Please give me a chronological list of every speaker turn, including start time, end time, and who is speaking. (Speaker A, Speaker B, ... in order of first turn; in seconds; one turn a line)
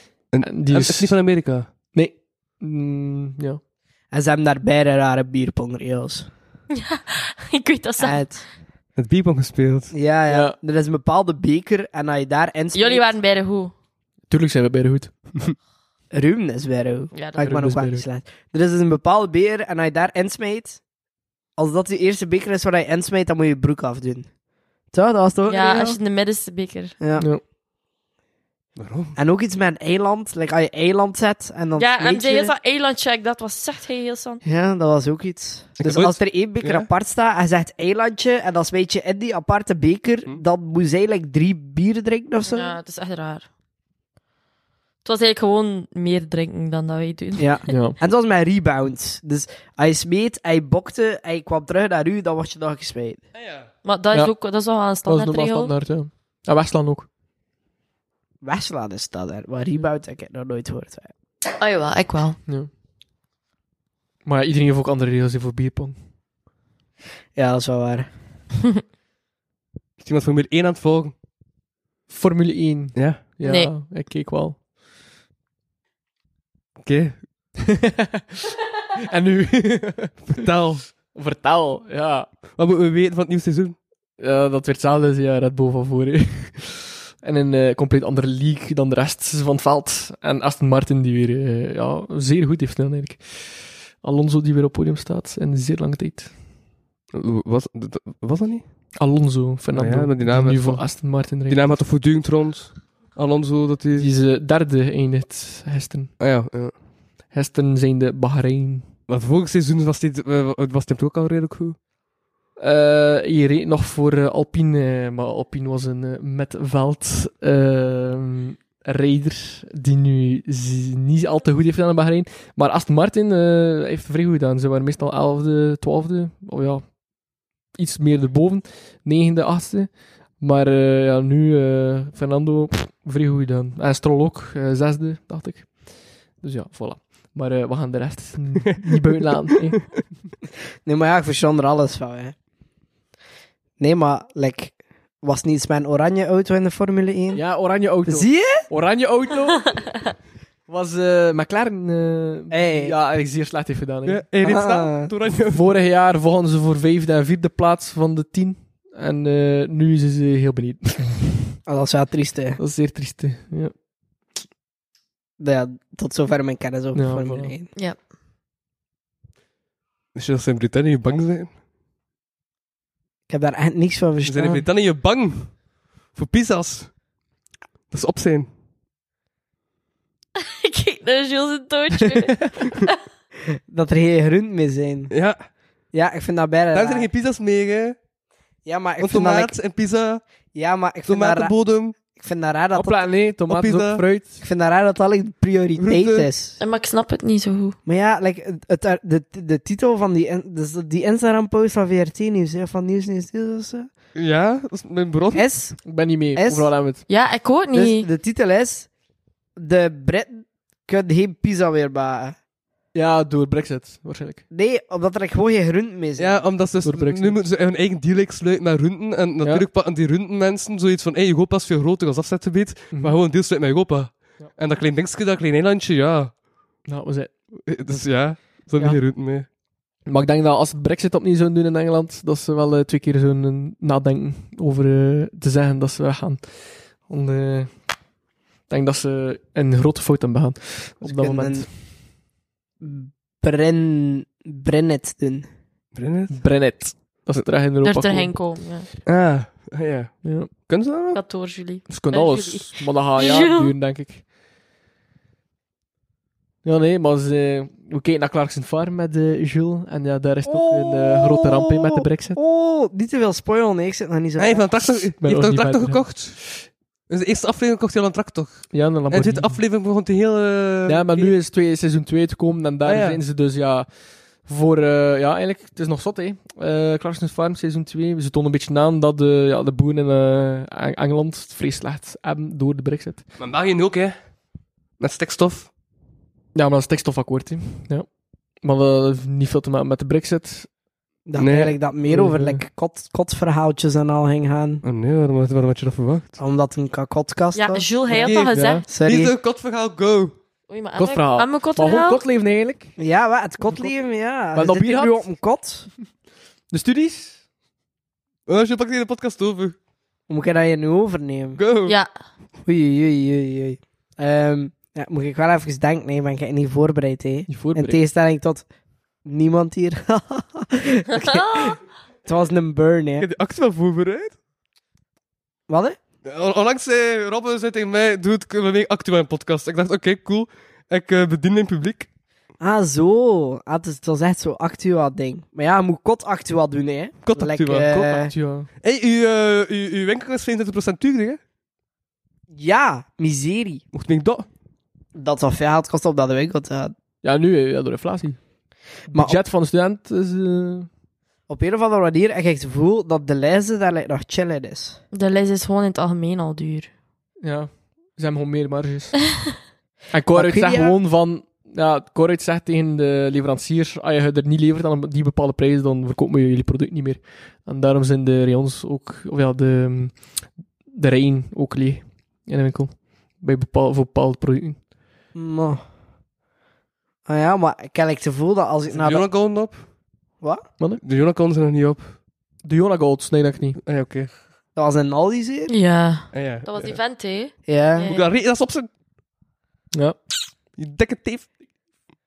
Speaker A: 0.3-1.7
Speaker B: 0.4-1.2
Speaker B: 1.9-3.6
Speaker C: 4.1-6.3
Speaker D: 6.7-8.4
Speaker C: 8.0-8.4
Speaker A: 9.0-9.9
Speaker C: 9.9-13.1
Speaker B: 10.3-10.6
Speaker D: 12.7-13.7
Speaker B: 14.3-15.3
Speaker C: 16.1-20.8
Speaker D: 17.1-17.4
Speaker B: 17.4-18.1
Speaker C: 21.6-24.3
Speaker C: 24.9-26.0
Speaker D: 25.5-26.9
Speaker C: 27.0-27.3
Speaker A: 28.8-29.2
Speaker C: 29.2-32.5
Speaker D: 31.8-34.4
Speaker C: 34.4-42.7
Speaker A: 35.8-36.9
Speaker D: 42.5-43.5
Speaker D: 45.0-47.8
Speaker C: 47.4-53.2
Speaker B: 47.7-48.0
Speaker A: 53.3-53.7
Speaker D: 53.8-55.8
Speaker B: 55.1-57.1
Speaker C: 58.4-61.1
Speaker D: 61.6-62.4
Speaker B: 64.2-66.0
Speaker C: 67.3-68.1
Speaker A: 70.0-71.2
Speaker B: 72.1-74.6
Speaker A: 73.0-73.2
Speaker D: 73.4-73.7
Speaker A: 76.8-77.3
Speaker B: 77.7-82.3
Speaker A: 80.3-80.9
Speaker A: 82.5-83.8
Speaker B: 84.2-96.4
Speaker A: 97.1-98.7
Speaker B: 99.0-101.8
Speaker A: 99.7-104.1
Speaker B: 104.0-106.1
Speaker A: 106.2-106.8
Speaker B: 107.3-108.9
Speaker A: 109.1-111.8
Speaker B: 112.6-127.0
Speaker B: 127.7-140.0
Speaker C: 140.8-142.4
Speaker C: 143.8-148.7
Speaker B: 147.3-149.9
Speaker B: 150.7-154.2
Speaker C: 152.5-152.9
Speaker A: 154.1-155.7
Speaker C: 154.4-155.1
Speaker B: 155.5-161.5
Speaker C: 161.7-162.6
Speaker B: 162.6-163.7
Speaker C: 165.4-167.7
Speaker B: 166.9-167.6
Speaker A: 170.2-171.5
Speaker C: 173.3-174.7
Speaker A: 174.2-177.0
Speaker A: 177.9-178.5
Speaker D: 180.4-183.0
Speaker C: 183.5-185.1
Speaker A: 185.1-185.4
Speaker C: 185.9-187.1
Speaker A: 186.7-188.0
Speaker C: 188.7-189.5
Speaker A: 189.0-190.2
Speaker C: 190.5-193.0
Speaker A: 191.1-192.0
Speaker B: 192.8-194.4
Speaker A: 193.5-194.0
Speaker C: 194.4-196.6
Speaker A: 195.8-196.3
Speaker D: 196.6-197.8
Speaker C: 197.9-203.9
Speaker A: 204.2-205.5
Speaker C: 205.3-206.7
Speaker B: 205.8-207.0
Speaker D: 207.1-208.1
Speaker C: 207.7-208.9
Speaker C: 209.6-212.4
Speaker B: 212.9-214.4
Speaker C: 214.5-216.5
Speaker A: 216.2-226.4
Speaker B: 216.8-217.5
Speaker B: 222.9-223.2
Speaker B: 226.9-227.3
Speaker A: 227.7-229.5
Speaker B: 230.1-238.0
Speaker B: 238.7-241.7
Speaker C: 241.0-241.9
Speaker C: 242.8-245.5
Speaker A: 245.9-246.5
Speaker B: 246.3-248.4
Speaker D: 247.8-248.9
Speaker A: 249.1-251.2
Speaker B: 250.2-250.5
Speaker D: 251.1-253.7
Speaker B: 251.9-254.2
Speaker B: 256.6-262.4
Speaker C: 260.5-264.7
Speaker A: 264.4-271.3
Speaker B: 265.2-266.1
Speaker B: 268.7-269.6
Speaker B: 270.9-283.2
Speaker A: 272.9-273.2
Speaker A: 283.4-284.1
Speaker A: 285.0-285.7
Speaker B: 286.6-288.1
Speaker B: 288.6-290.7
Speaker C: 291.3-294.8
Speaker A: 291.4-291.8
Speaker B: 292.0-292.6
Speaker A: 294.8-296.4
Speaker C: 296.4-298.3
Speaker D: 297.6-298.9
Speaker A: 298.1-300.4
Speaker B: 298.5-298.8
Speaker C: 298.9-299.3
Speaker D: 300.7-302.2
Speaker B: 301.0-302.9
Speaker C: 303.0-305.9
Speaker B: 304.5-305.3
Speaker B: 306.7-307.4
Speaker A: 308.5-309.8
Speaker C: 310.3-311.6
Speaker A: 311.6-312.0
Speaker D: 311.9-312.1
Speaker C: 312.6-318.7
Speaker B: 317.5-318.0
Speaker C: 319.2-323.3
Speaker D: 321.2-321.7
Speaker A: 323.2-324.4
Speaker C: 325.7-326.0
Speaker A: 326.2-332.1
Speaker C: 332.6-338.3
Speaker A: 337.2-337.9
Speaker B: 337.8-338.7
Speaker A: 338.8-341.4
Speaker C: 342.5-343.8
Speaker A: 343.9-344.5
Speaker C: 345.1-346.9
Speaker B: 347.2-348.4
Speaker B: 349.1-350.9
Speaker C: 349.1-349.4
Speaker C: 351.5-355.0
Speaker D: 355.1-356.9
Speaker B: 357.4-359.2
Speaker B: 360.1-374.8
Speaker C: 360.3-361.0
Speaker C: 375.3-375.8
Speaker C: 377.3-379.3
Speaker A: 378.9-379.8
Speaker C: 380.4-380.7
Speaker A: 381.0-382.2
Speaker B: 382.6-383.8
Speaker A: 383.8-384.3
Speaker C: 384.8-385.7
Speaker D: 385.7-388.3
Speaker A: 386.3-387.0
Speaker C: 387.7-388.1
Speaker A: 388.0-388.9
Speaker B: 389.9-390.2
Speaker A: 390.8-391.5